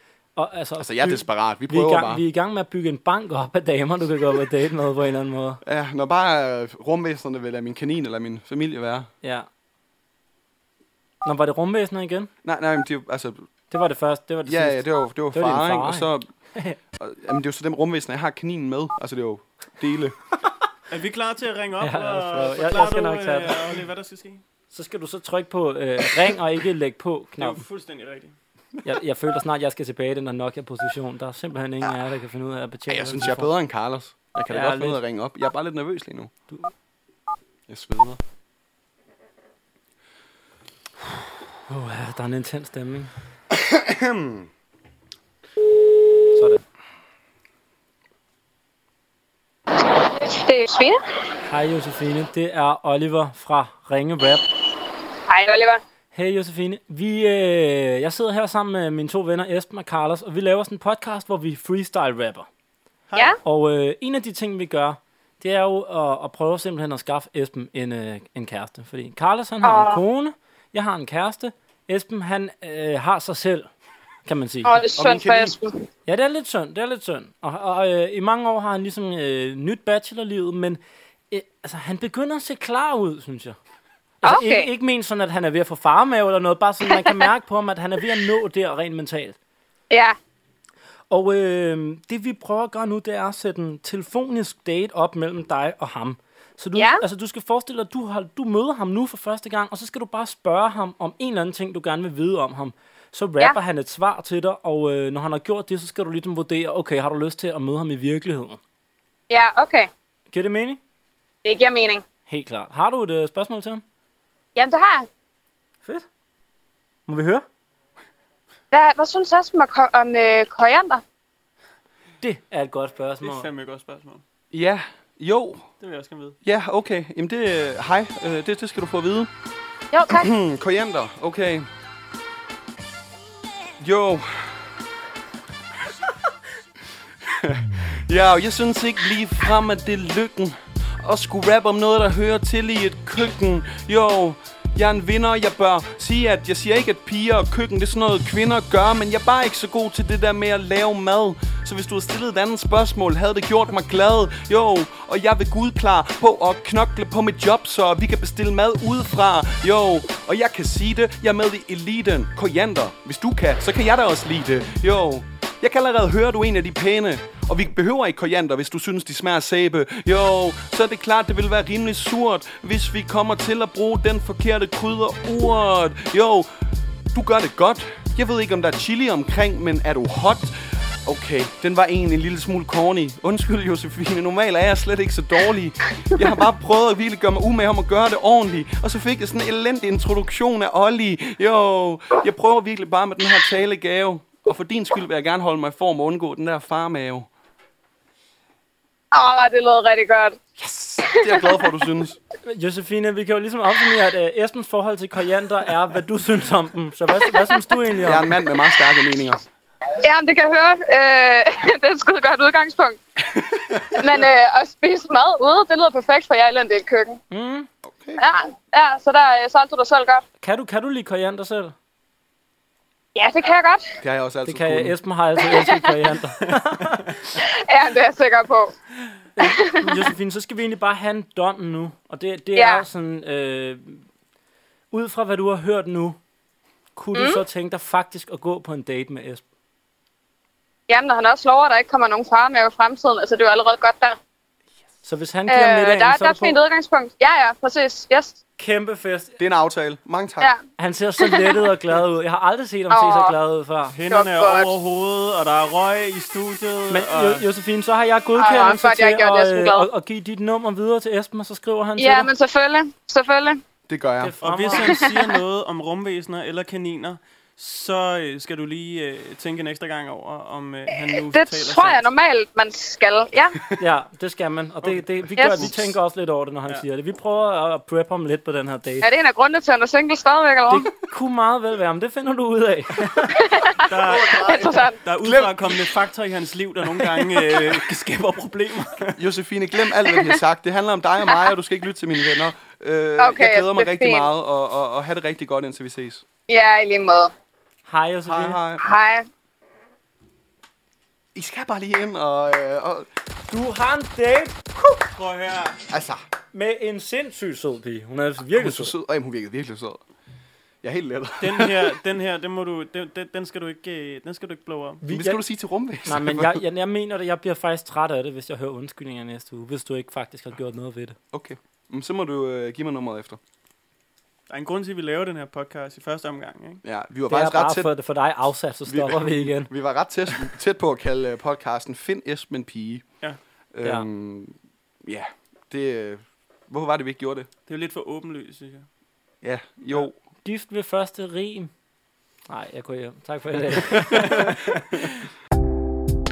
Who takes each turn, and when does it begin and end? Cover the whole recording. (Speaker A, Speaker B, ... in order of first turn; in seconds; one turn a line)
Speaker A: 0.3-5.6
Speaker B: 0.8-2.2
Speaker B: 5.6-9.1
Speaker A: 11.2-12.3
Speaker B: 12.4-13.4
Speaker A: 13.7-16.8
Speaker B: 14.4-16.3
Speaker B: 17.0-20.2
Speaker C: 20.9-24.4
Speaker A: 21.8-23.6
Speaker A: 24.7-27.6
Speaker C: 27.4-28.3
Speaker A: 28.8-33.5
Speaker B: 32.9-36.3
Speaker A: 34.5-35.0
Speaker B: 37.7-38.2
Speaker A: 41.7-43.1
Speaker B: 43.5-44.5
Speaker A: 46.3-46.6
Speaker D: 49.7-51.0
Speaker A: 51.4-54.5
Speaker D: 55.3-55.8
Speaker A: 56.1-62.5
Speaker C: 63.1-63.3
Speaker A: 63.4-73.7
Speaker D: 69.6-70.0
Speaker A: 74.2-74.8
Speaker D: 74.6-75.8
Speaker B: 74.9-75.5
Speaker A: 76.1-80.8
Speaker A: 81.3-83.6
Speaker A: 84.2-89.3
Speaker D: 84.2-84.7
Speaker D: 89.9-90.2
Speaker A: 91.1-108.6
Speaker D: 96.7-97.0
Speaker D: 109.3-109.9
Speaker A: 110.3-110.8
Speaker D: 111.4-112.0
Speaker A: 112.3-113.8
Speaker D: 114.5-115.1
Speaker A: 117.1-117.4
Speaker D: 118.7-121.0
Speaker A: 122.2-123.5
Speaker C: 123.2-124.2
Speaker B: 124.5-125.7
Speaker C: 125.8-126.3
Speaker B: 126.4-129.3
Speaker D: 129.9-130.3
Speaker B: 130.1-131.7
Speaker B: 133.8-134.6
Speaker B: 137.2-176.5
Speaker B: 177.1-197.3
Speaker D: 199.1-200.4
Speaker B: 200.6-202.2
Speaker D: 201.2-201.6
Speaker A: 202.4-208.3
Speaker B: 208.0-209.4
Speaker D: 210.0-213.0
Speaker B: 213.3-214.2
Speaker D: 213.9-217.2
Speaker A: 217.3-217.7
Speaker B: 217.8-218.2
Speaker D: 218.2-220.2
Speaker A: 220.4-221.7
Speaker D: 223.1-223.9
Speaker B: 224.0-225.0
Speaker A: 224.4-227.1
Speaker D: 225.4-225.7
Speaker C: 226.5-227.3
Speaker D: 227.4-228.7
Speaker A: 229.4-234.0
Speaker D: 229.4-229.8
Speaker D: 232.6-232.8
Speaker A: 234.9-236.2
Speaker A: 236.9-239.4
Speaker D: 237.1-237.4
Speaker D: 240.9-244.2
Speaker A: 245.0-246.6
Speaker D: 245.5-248.4
Speaker A: 248.6-249.4
Speaker B: 249.4-250.5
Speaker A: 250.8-253.9
Speaker D: 251.2-251.5
Speaker D: 252.9-253.3
Speaker C: 253.9-257.4
Speaker D: 254.1-254.7
Speaker A: 256.9-262.3
Speaker D: 258.4-259.9
Speaker D: 262.0-263.6
Speaker B: 263.9-264.3
Speaker A: 264.2-264.9
Speaker C: 264.4-272.0
Speaker D: 264.8-265.3
Speaker D: 270.9-273.6
Speaker A: 273.8-279.0
Speaker D: 275.4-275.7
Speaker D: 279.0-280.9
Speaker A: 280.7-283.2
Speaker D: 283.3-285.0
Speaker C: 283.9-289.1
Speaker B: 284.1-284.7
Speaker B: 285.2-285.9
Speaker B: 287.0-287.7
Speaker B: 289.1-296.2
Speaker D: 293.2-294.3
Speaker D: 296.5-297.3
Speaker A: 297.9-298.6
Speaker B: 298.2-298.8
Speaker D: 298.8-299.2
Speaker B: 301.3-303.1
Speaker A: 303.5-304.6
Speaker C: 305.1-305.8
Speaker B: 305.9-306.2
Speaker A: 306.5-308.9
Speaker B: 308.5-310.0
Speaker B: 310.8-312.0
Speaker C: 311.4-315.0
Speaker A: 315.0-315.4
Speaker B: 315.1-316.6
Speaker A: 316.0-321.1
Speaker B: 321.3-323.4
Speaker C: 324.5-326.8
Speaker B: 326.8-327.9
Speaker A: 327.3-329.7
Speaker B: 328.9-333.1
Speaker B: 333.7-337.5
Speaker C: 337.7-338.9
Speaker B: 339.4-340.1
Speaker A: 340.4-341.7
Speaker A: 342.5-344.7
Speaker B: 343.9-344.9